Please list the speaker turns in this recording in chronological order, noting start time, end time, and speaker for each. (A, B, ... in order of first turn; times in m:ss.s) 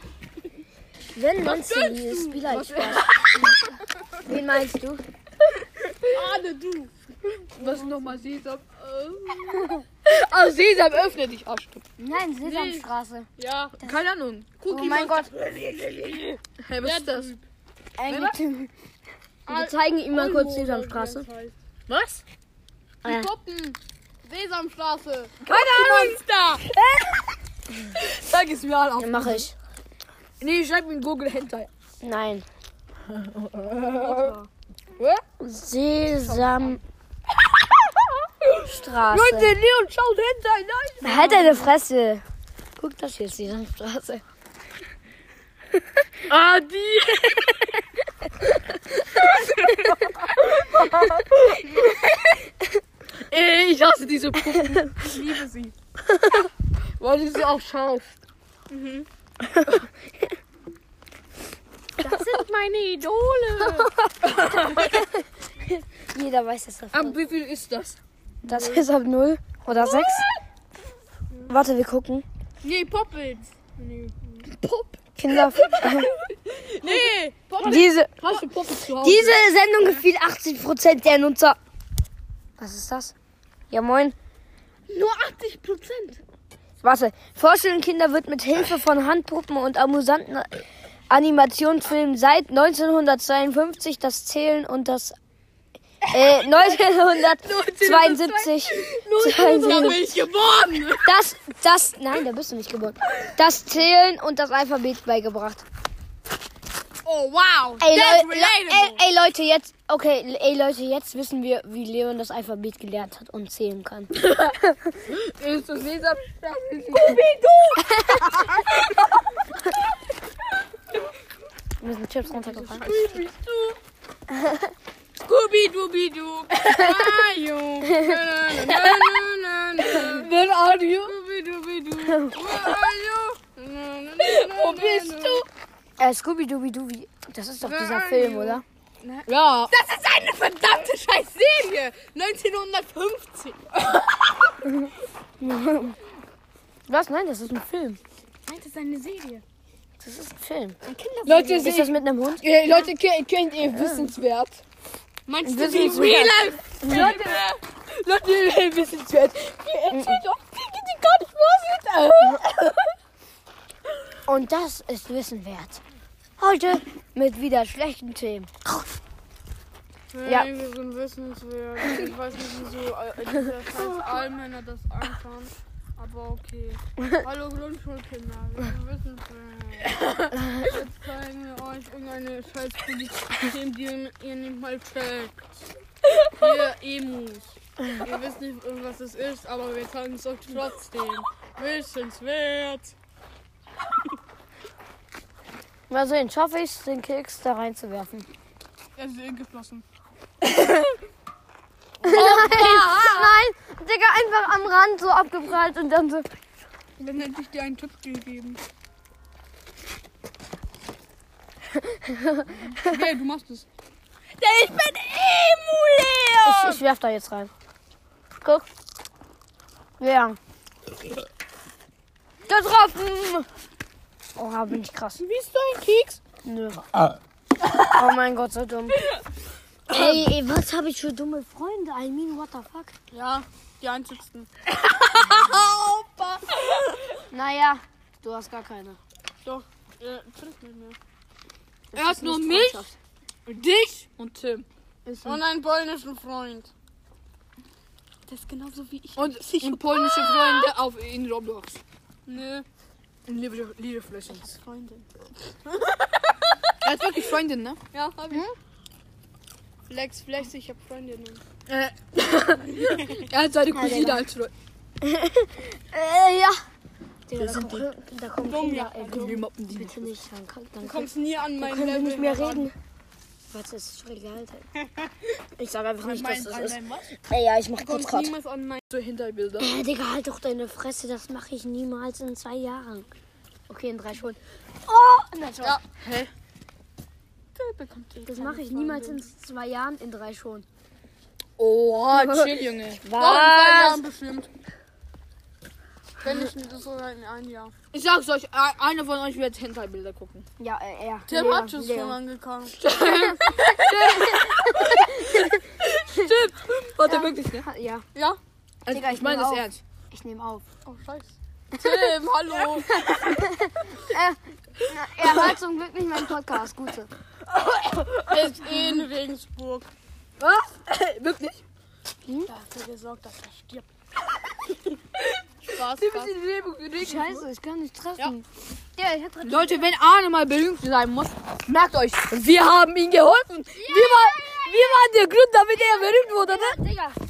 0:01.2-0:03.1 A
0:01.5-0:03.6 B
0:04.2-0:05.0 A
0:05.8-0:06.2 B
0:06.1-0:07.0 C
0:07.6-0:11.8 B
0:07.6-0:07.9 C
0:12.0-0:13.3 A
0:12.4-0:13.8 C
0:13.8-0:17.3 B
0:14.7-0:15.3 A
0:16.8-0:17.4 C
0:18.0-0:18.7 A
0:18.1-0:18.4 B
0:19.5-0:21.3 A
0:19.5-0:21.6 C
0:21.9-0:22.2 B
0:23.0-0:26.7 C
0:25.4-0:27.3 B
0:28.0-0:29.5 B
0:29.0-0:29.5 A
0:30.4-0:31.7 B
0:32.0-0:32.5 A
0:33.1-0:34.4 B
0:34.0-0:34.5 C
0:35.0-0:35.2 B
0:35.4-0:36.8 A
0:36.2-0:36.7 B
0:37.5-0:41.7 B
0:38.6-0:39.5 A
0:41.0-0:42.2 A
0:42.8-0:44.2 A
0:46.3-0:47.8 B
0:49.3-0:52.2 B
0:53.3-0:55.1 B
0:55.0-0:55.8 C
0:56.2-0:56.4 A
0:57.0-0:58.2 B
0:58.7-0:59.1 C
0:59.5-0:59.8 A
1:02.0-1:03.9 C
1:04.2-1:05.0 B
1:04.6-1:05.1 A
1:05.7-1:07.2 A
1:06.9-1:08.0 B
1:08.4-1:10.3 A
1:08.5-1:08.8 C
1:09.8-1:10.3 B
1:11.5-1:12.3 A
1:12.6-1:14.5 C
1:14.4-1:19.4 B
1:15.2-1:16.1 A
1:16.8-1:17.9 C
1:17.6-1:18.2 A
1:19.0-1:21.6 A
1:22.6-1:23.1 A
1:23.7-1:24.2 A
1:24.9-1:26.2 C
1:26.8-1:35.2 A
1:36.0-1:40.3 B
1:36.1-1:40.2 A
1:39.5-1:41.1 C
1:41.0-1:45.6 A
1:47.1-1:48.2 B
1:47.6-1:49.0 C
1:47.8-1:55.0 A
1:54.2-1:59.2 B
1:57.0-1:57.8 C
1:57.8-1:58.5 A
2:01.8-2:03.0 A
2:02.6-2:03.2 C
2:02.7-2:03.8 B
2:04.3-2:04.7 A
2:05.2-2:10.3 C
2:06.5-2:07.0 B
2:07.8-2:08.2 A
2:08.7-2:09.0 B
2:09.9-2:11.2 B
2:11.0-2:15.5 C
2:12.1-2:12.4 A
2:12.6-2:12.8 B
2:14.2-2:15.5 B
2:16.0-2:18.6 A
2:17.6-2:24.0 C
2:19.3-2:19.7 B
2:25.4-2:26.0 A
2:26.9-2:28.0 A
2:28.5-2:29.4 C
2:30.0-2:30.8 A
2:30.8-2:31.7 C
2:31.2-2:34.6 B
2:31.4-2:32.4 A
2:33.7-2:34.1 A
2:35.3-2:37.6 C
2:35.4-2:37.2 A
2:35.6-2:42.9 B
2:39.9-2:40.2 A
2:44.3-2:45.8 A
2:46.4-2:48.8 A
2:50.1-3:00.0 C
2:50.2-2:50.5 A
3:00.3-3:00.7 A
3:00.6-3:05.4 C
3:06.3-3:13.0 C
3:15.9-3:18.3 A
3:19.0-3:19.8 C
3:22.0-3:26.3 A
3:22.0-3:23.4 B
3:22.2-3:22.7 C
3:27.0-3:28.6 C
3:31.8-3:32.9 A
3:32.8-3:33.7 C
3:34.4-3:36.8 C
3:34.4-3:36.3 B
3:36.4-3:37.5 A
3:40.0-3:40.4 A
3:42.5-3:43.5 A
3:44.4-3:45.2 A
3:45.2-3:46.2 B
3:46.4-3:46.9 A
3:47.9-3:49.0 A
3:49.9-3:52.9 A
3:49.9-3:50.2 B
3:53.1-3:54.5 C
3:54.7-3:57.1 B
3:57.3-3:59.0 A
3:59.4-4:01.0 C
4:01.9-4:03.0 A
4:02.0-4:02.9 B
4:03.5-4:04.7 B
4:05.1-4:05.4 A
4:05.2-4:06.7 C
4:08.3-4:10.7 C
4:09.2-4:11.8 B
4:12.3-4:12.7 C
4:13.3-4:14.5 B
4:14.3-4:15.1 C
4:15.7-4:16.6 C
4:16.8-4:17.8 B
4:17.9-4:18.5 C
4:19.9-4:21.4 C
4:21.7-4:24.5 B
4:22.8-4:23.2 C
4:23.7-4:24.2 A
4:25.0-4:26.6 A
4:27.3-4:32.7 A
4:27.4-4:27.9 B
4:28.4-4:29.5 C
4:29.1-4:30.1 B
4:30.8-4:32.7 C
4:33.5-4:34.7 A
4:35.6-4:38.3 A
4:36.0-4:37.1 B
4:37.8-4:38.8 C
4:38.9-4:39.7 B
4:39.6-4:43.1 A
4:43.7-4:45.8 A
4:46.0-4:46.3 B
4:47.6-4:49.3 C
4:48.3-4:50.7 A
4:51.6-4:53.1 B
4:52.1-4:54.0 A
4:53.2-4:54.5 C
4:56.2-4:57.7 C
4:57.9-5:00.5 B
5:00.6-5:02.2 A
5:01.3-5:02.8 C
5:02.8-5:07.7 B
5:03.0-5:05.6 A
5:07.0-5:08.1 A
5:08.2-5:08.4 C
5:08.8-5:09.8 B
5:08.9-5:10.6 A
5:10.8-5:13.0 C
5:11.8-5:12.0 A
5:12.9-5:17.1 A
5:17.5-5:19.1 B
5:18.3-5:19.9 C
5:20.4-5:21.6 B
5:22.2-5:22.5 A
5:22.5-5:23.9 C
5:25.2-5:27.4 B
5:25.7-5:26.3 C
5:27.0-5:28.4 A
5:29.0-5:29.9 A
5:29.4-5:36.8 B
5:33.8-5:35.0 A
5:36.1-5:37.2 A